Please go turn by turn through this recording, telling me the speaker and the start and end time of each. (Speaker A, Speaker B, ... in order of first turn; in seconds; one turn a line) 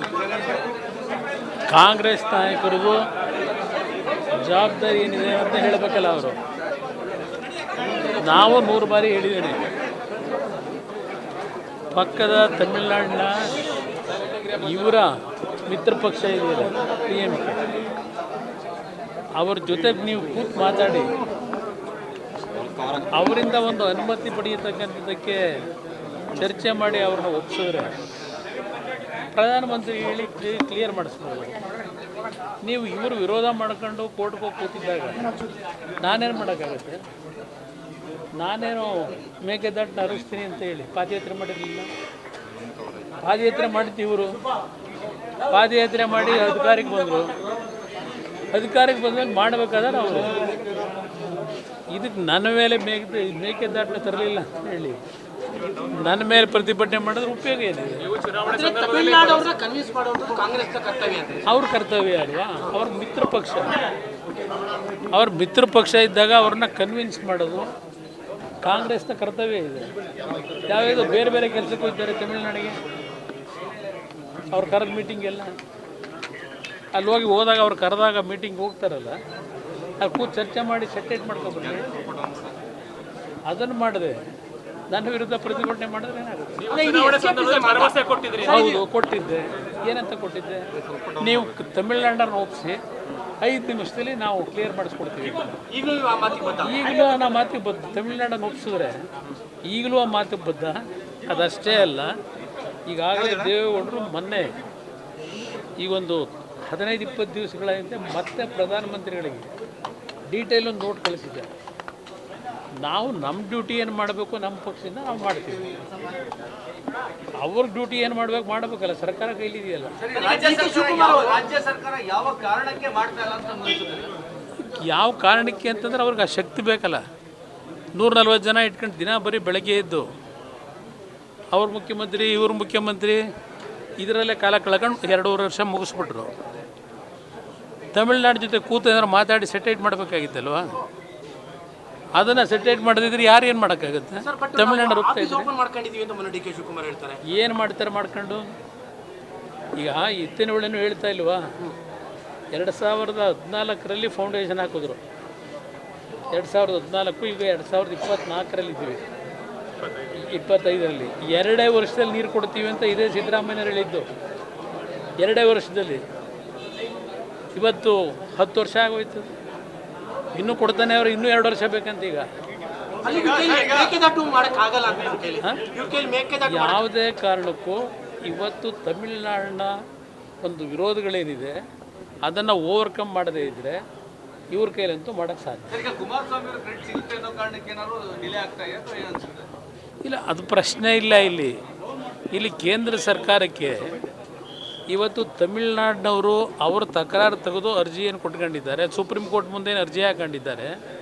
Speaker A: 1.7-3.0
Speaker A: 4.4-6.4
Speaker A: 8.2-9.7
Speaker A: 11.9-13.4
Speaker A: 14.5-15.1
Speaker A: 15.7-17.6
Speaker A: 19.4-21.1
Speaker A: 23.0-25.4
Speaker A: 26.3-27.9
Speaker A: 29.3-31.5
Speaker A: 32.6-35.3
Speaker A: 36.0-37.0
Speaker A: 38.4-41.9
Speaker A: 43.2-44.4
Speaker A: 45.5-47.3
Speaker A: 48.5-50.3
Speaker A: 51.9-55.0
Speaker A: 55.9-58.2
Speaker B: 58.3-61.5
Speaker A: 61.5-63.8
Speaker A: 65.1-67.7
Speaker A: 68.6-69.9
Speaker A: 70.7-72.8
Speaker A: 74.5-75.5
Speaker A: 76.9-79.2
Speaker A: 80.0-82.0
Speaker A: 83.5-84.2
Speaker A: 84.9-86.7
Speaker B: 86.6-88.8
Speaker A: 88.4-92.8
Speaker A: 93.4-95.6
Speaker B: 95.7-96.8
Speaker A: 96.6-99.0
Speaker A: 99.7-102.1
Speaker A: 102.8-104.5
Speaker A: 105.8-109.5
Speaker A: 110.3-111.5
Speaker A: 112.8-115.7
Speaker A: 117.4-120.1
Speaker B: 120.1-121.5
Speaker C: 120.2-124.1
Speaker A: 124.6-127.0
Speaker A: 127.9-130.1
Speaker A: 131.5-133.2
Speaker A: 134.0-136.3
Speaker A: 137.9-140.7
Speaker A: 142.1-145.5
Speaker B: 144.2-147.2
Speaker A: 147.2-148.5
Speaker A: 149.8-151.5
Speaker A: 152.5-155.0
Speaker A: 156.3-159.0
Speaker A: 160.1-164.1
Speaker A: 165.2-166.0
Speaker A: 167.5-169.3
Speaker A: 170.3-172.3
Speaker B: 173.0-176.8
Speaker A: 175.4-175.7
Speaker A: 176.4-179.8
Speaker A: 180.4-181.6
Speaker A: 182.2-183.8
Speaker A: 184.5-185.9
Speaker C: 185.8-189.5
Speaker A: 190.0-191.6
Speaker A: 192.3-193.9
Speaker A: 194.9-200.8